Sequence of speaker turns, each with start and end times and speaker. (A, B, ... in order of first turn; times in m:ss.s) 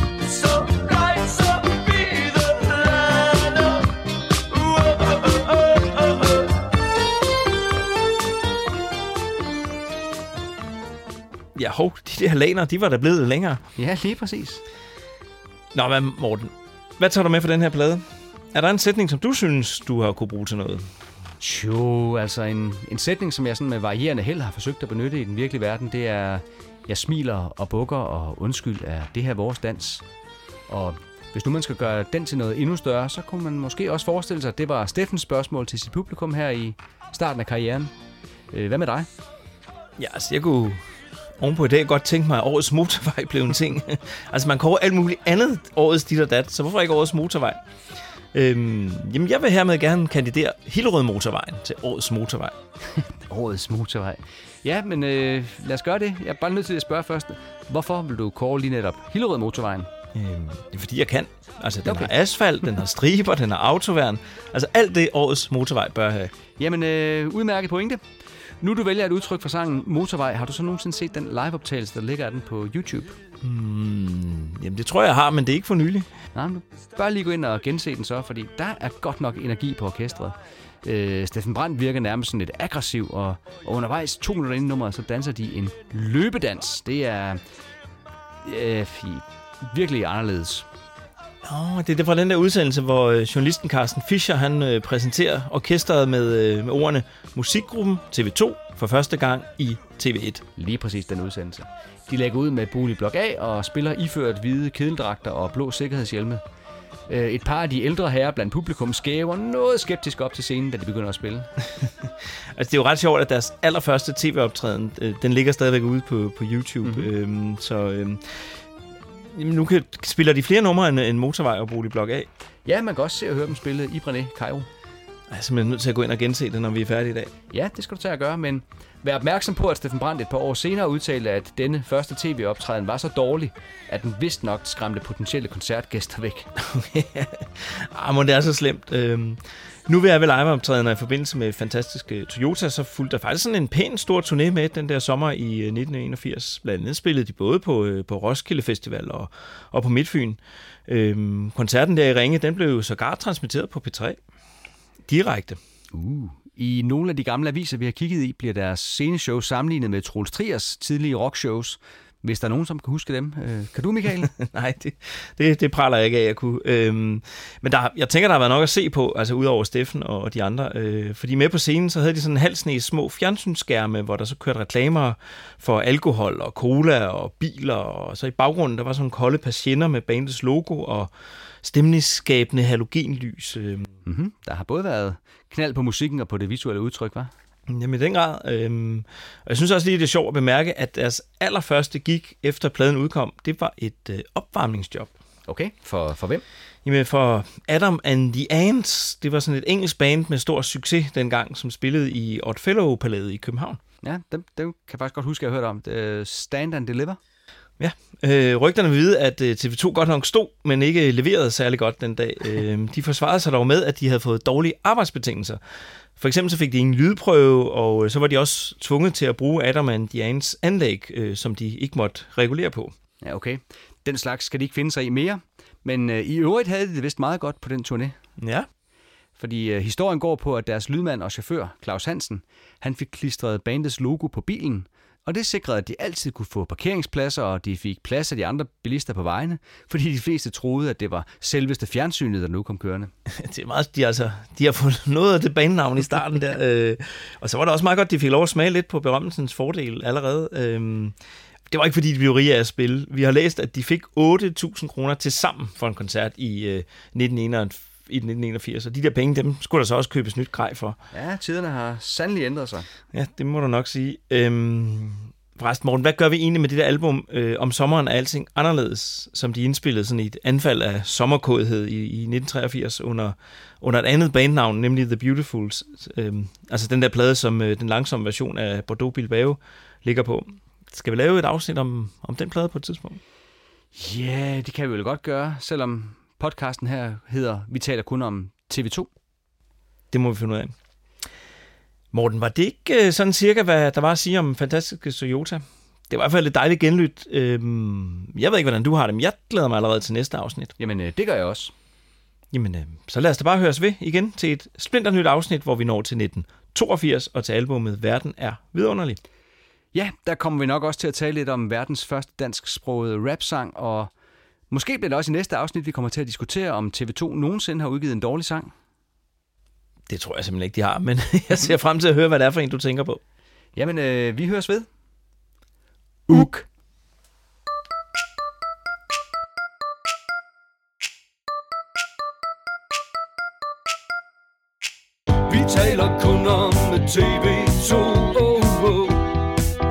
0:00.2-0:06.6 A
0:11.6-0:13.6 B
0:13.8-0:14.6 C
0:15.7-0:20.9 B
0:21.4-0:30.0 C
0:30.7-0:37.9 C
0:38.5-0:39.1 C
0:40.0-0:40.8 B
0:41.4-0:47.6 B
0:48.3-0:52.6 B
0:52.9-0:59.9 C
1:00.1-1:06.3 B
1:01.8-1:02.1 C
1:06.6-1:08.0 C
1:08.6-1:13.2 C
1:13.4-1:16.1 B
1:16.3-1:27.4 C
1:28.4-1:30.7 C
1:31.4-1:40.4 B
1:40.6-1:46.4 C
1:47.1-1:51.5 C
1:52.5-1:58.5 B
1:59.3-2:02.3 B
2:02.7-2:04.7 C
2:05.3-2:07.3 B
2:07.5-2:16.5 C
2:16.6-2:34.2 B
2:35.0-2:35.6 B
2:35.9-2:44.3 C
2:44.2-3:01.1 B
3:01.6-3:04.0 B
3:04.0-3:07.3 C
3:07.7-3:15.1 B
3:15.5-3:16.4 C
3:16.8-3:23.8 B
3:24.0-3:27.2 C
3:27.8-3:35.6 B
3:36.2-3:43.0 B
3:43.2-3:48.2 C
3:48.4-3:48.7 B
3:49.4-4:03.1 C
4:03.3-4:11.2 B
4:11.7-4:21.0 B
4:21.1-4:22.9 C
4:23.1-4:43.2 B
4:44.0-4:49.1 C
4:50.1-4:50.7 B
4:52.1-5:00.7 B
5:00.8-5:01.7 C
5:02.5-5:09.2 B
5:09.9-5:14.1 C
5:14.7-5:18.7 C
5:20.1-5:23.2 B
5:23.8-5:24.9 C
5:26.3-5:26.7 C
5:35.4-5:39.3 A